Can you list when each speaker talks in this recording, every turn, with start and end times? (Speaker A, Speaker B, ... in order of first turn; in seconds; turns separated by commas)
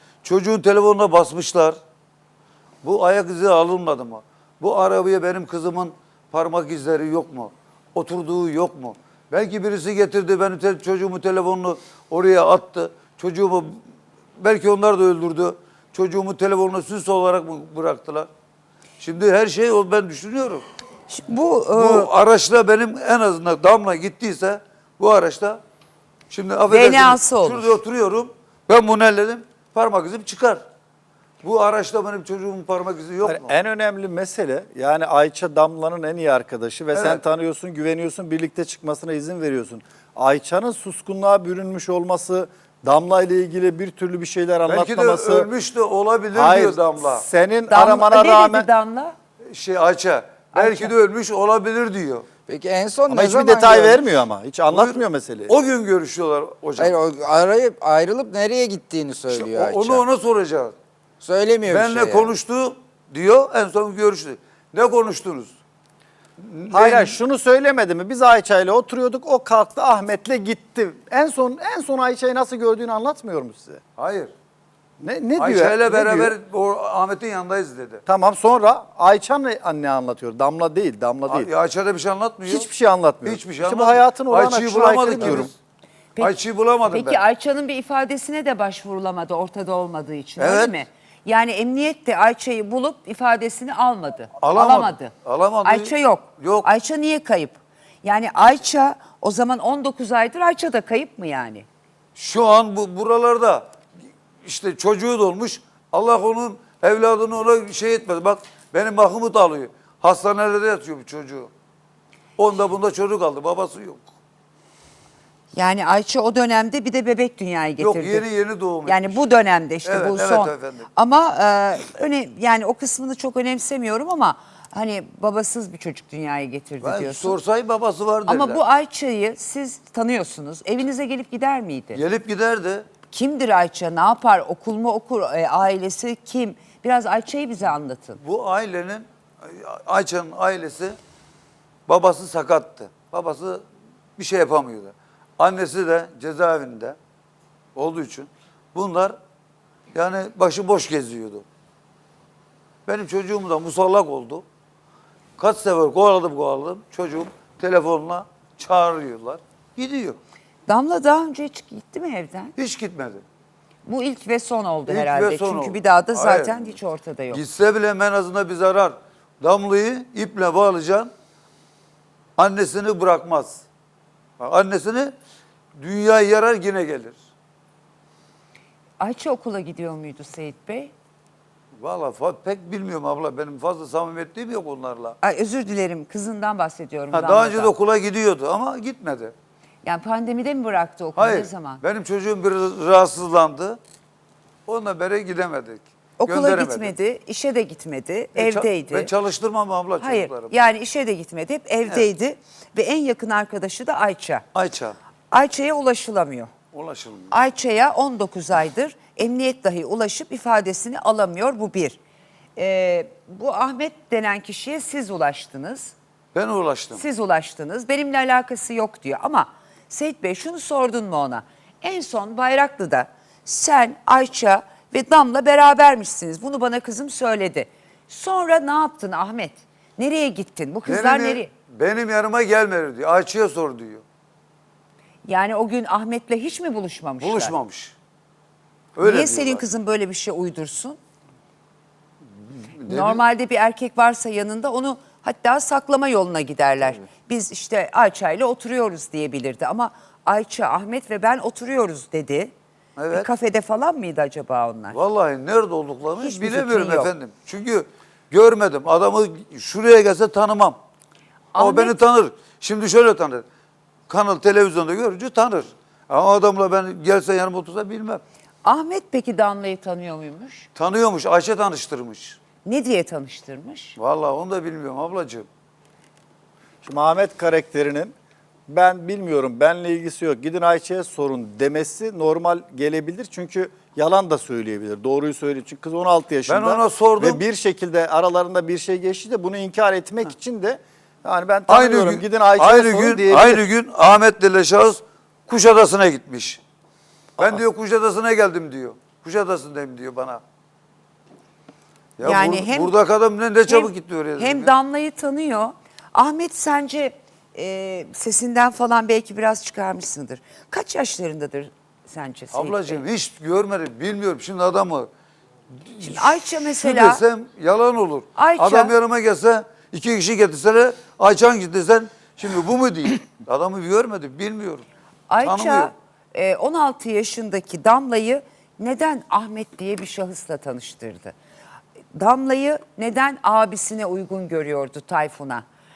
Speaker A: 0.2-1.8, Speaker A: 2.8-13.8, Speaker A: 14.4-18.3, Speaker A: 19.0-20.6, Speaker B: 21.1-22.1, Speaker A: 21.7-25.6, Speaker A: 26.3-30.6, Speaker B: 26.7-27.8, Speaker A: 31.4-33.5, Speaker C: 33.2-45.5, Speaker A: 36.9-37.2, Speaker A: 44.6-47.3, Speaker C: 46.3-48.7, Speaker B: 47.7-49.1, Speaker A: 49.5-52.3, Speaker B: 50.5-50.9, Speaker D: 52.5-54.2, Speaker C: 53.1-55.5, Speaker A: 54.7-57.0, Speaker D: 56.8-60.0, Speaker A: 59.3-60.7, Speaker D: 61.2-62.3, Speaker A: 61.7-65.5, Speaker A: 66.4-67.2, Speaker C: 66.7-73.8, Speaker A: 74.0-74.3, Speaker C: 75.0-76.3, Speaker A: 75.4-78.0, Speaker C: 78.1-81.5, Speaker A: 81.3-82.7, Speaker C: 82.5-85.5, Speaker A: 83.2-85.5, Speaker B: 86.1-101.7, Speaker A: 86.2-87.2, Speaker A: 90.4-90.8, Speaker A: 94.4-96.7, Speaker A: 102.2-103.7, Speaker A: 104.4-111.5, Speaker A: 112.4-114.1, Speaker B: 115.5-118.2, Speaker A: 117.8-119.2, Speaker B: 118.8-127.4, Speaker A: 119.8-120.9, Speaker A: 126.8-128.6, Speaker B: 128.2-132.0, Speaker A: 131.9-132.9, Speaker B: 133.1-138.2, Speaker A: 138.2-140.9, Speaker A: 141.9-143.6, Speaker A: 144.2-147.0, Speaker A: 147.8-149.2, Speaker A: 149.9-151.4, Speaker A: 152.8-154.4, Speaker A: 155.4-160.2, Speaker B: 160.7-162.5, Speaker A: 162.6-163.2, Speaker B: 163.8-167.4, Speaker A: 164.9-166.8, Speaker A: 167.3-171.1, Speaker A: 172.4-173.6, Speaker A: 174.4-175.1, Speaker A: 175.7-177.2, Speaker B: 179.0-180.9, Speaker A: 181.8-185.2, Speaker B: 185.2-187.7, Speaker A: 187.1-189.3, Speaker B: 189.8-191.8, Speaker A: 191.2-193.8, Speaker A: 194.7-196.9, Speaker B: 196.2-199.1, Speaker A: 198.3-200.5, Speaker B: 200.0-204.4, Speaker A: 204.5-204.9, Speaker B: 205.3-206.5, Speaker A: 206.7-207.3, Speaker B: 207.3-212.0, Speaker B: 212.6-215.9, Speaker A: 216.3-217.0, Speaker B: 216.9-231.5, Speaker A: 230.8-234.0, Speaker B: 235.2-237.5, Speaker A: 237.2-237.9, Speaker A: 238.9-239.6, Speaker B: 239.0-241.0, Speaker A: 242.5-243.2, Speaker B: 242.8-252.5, Speaker A: 253.0-253.3, Speaker B: 253.1-255.0, Speaker A: 254.9-260.8, Speaker B: 256.2-257.1, Speaker B: 261.5-261.9, Speaker A: 261.6-263.4, Speaker A: 264.1-268.2, Speaker B: 268.6-270.7, Speaker A: 270.8-272.4, Speaker B: 272.6-273.9, Speaker A: 274.0-275.5, Speaker C: 276.8-278.1, Speaker C: 278.7-293.6, Speaker A: 286.5-287.4, Speaker A: 291.7-296.6, Speaker A: 297.4-300.4, Speaker A: 302.2-304.7, Speaker B: 302.2-302.9, Speaker B: 303.7-313.0, Speaker A: 312.5-315.1, Speaker A: 315.8-324.9, Speaker B: 316.0-317.2, Speaker B: 318.3-318.9, Speaker B: 325.3-331.3, Speaker A: 325.4-325.9, Speaker B: 332.1-335.6